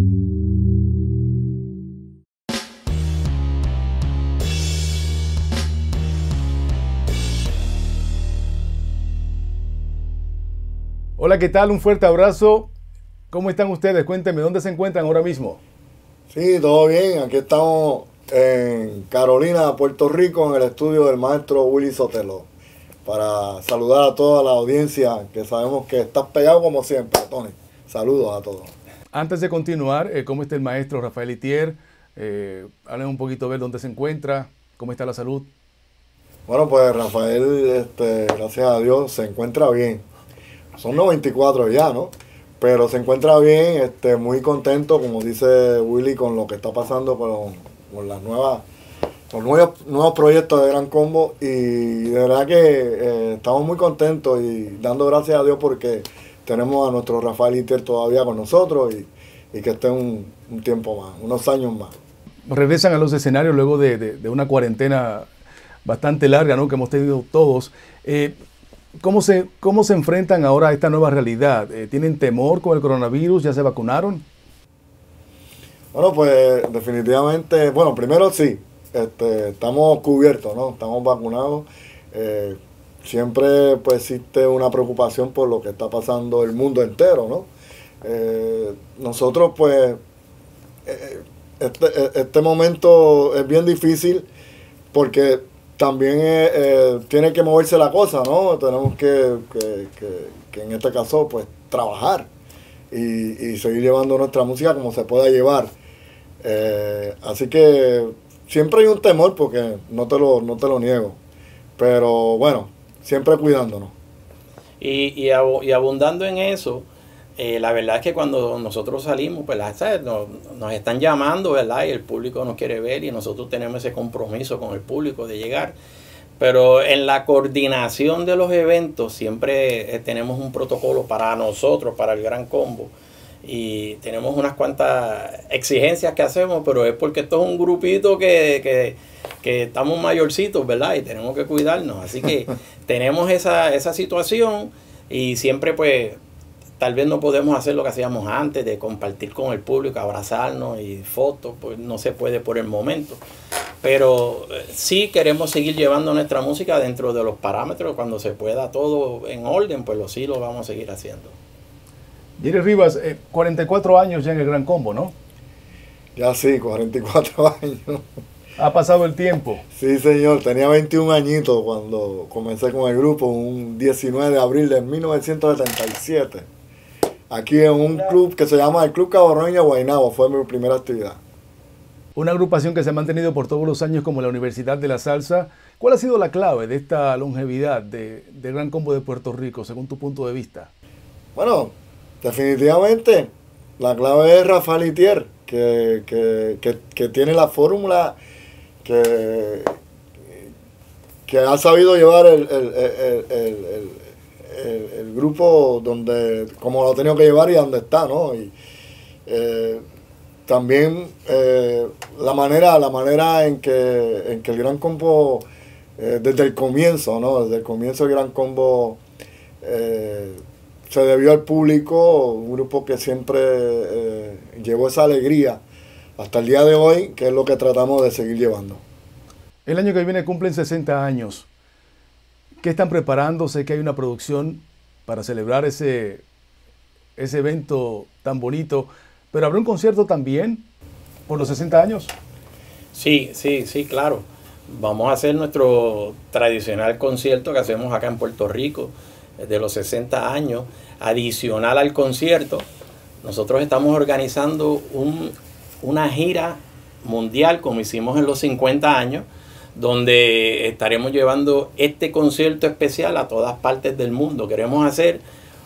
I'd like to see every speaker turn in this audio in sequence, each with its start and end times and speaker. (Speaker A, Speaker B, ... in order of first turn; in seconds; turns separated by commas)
Speaker A: 11.2-12.7, Speaker A: 13.3-15.6, Speaker B: 16.3-22.5, Speaker B: 23.1-28.7, Speaker A: 29.1-35.5, Speaker B: 36.5-40.0, Speaker B: 40.8-48.6, Speaker B: 49.3-61.9, Speaker A: 62.5-65.3, Speaker A: 65.8-68.4, Speaker A: 69.0-74.2, Speaker B: 75.9-87.5, Speaker B: 88.0-90.0, Speaker B: 90.9-94.3, Speaker B: 94.9-102.3, Speaker B: 102.9-105.7, Speaker B: 106.4-111.2, Speaker B: 111.8-114.0, Speaker C: 114.8-125.8, Speaker C: 126.4-132.9, Speaker C: 133.4-146.2, Speaker C: 146.8-153.2, Speaker C: 153.8-161.4, Speaker A: 162.4-165.2, Speaker B: 166.2-168.0, Speaker A: 168.6-169.6, Speaker B: 169.7-176.5, Speaker B: 177.3-181.2, Speaker A: 182.2-190.7, Speaker B: 191.3-198.2, Speaker B: 198.8-199.8, Speaker B: 201.3-208.5, Speaker B: 209.3-209.8, Speaker B: 210.5-219.0, Speaker B: 219.6-225.6, Speaker B: 226.2-228.8, Speaker A: 229.7-231.5, Speaker A: 232.6-236.2, Speaker A: 237.2-240.7, Speaker A: 241.3-242.1, Speaker C: 242.9-252.7, Speaker C: 253.2-265.2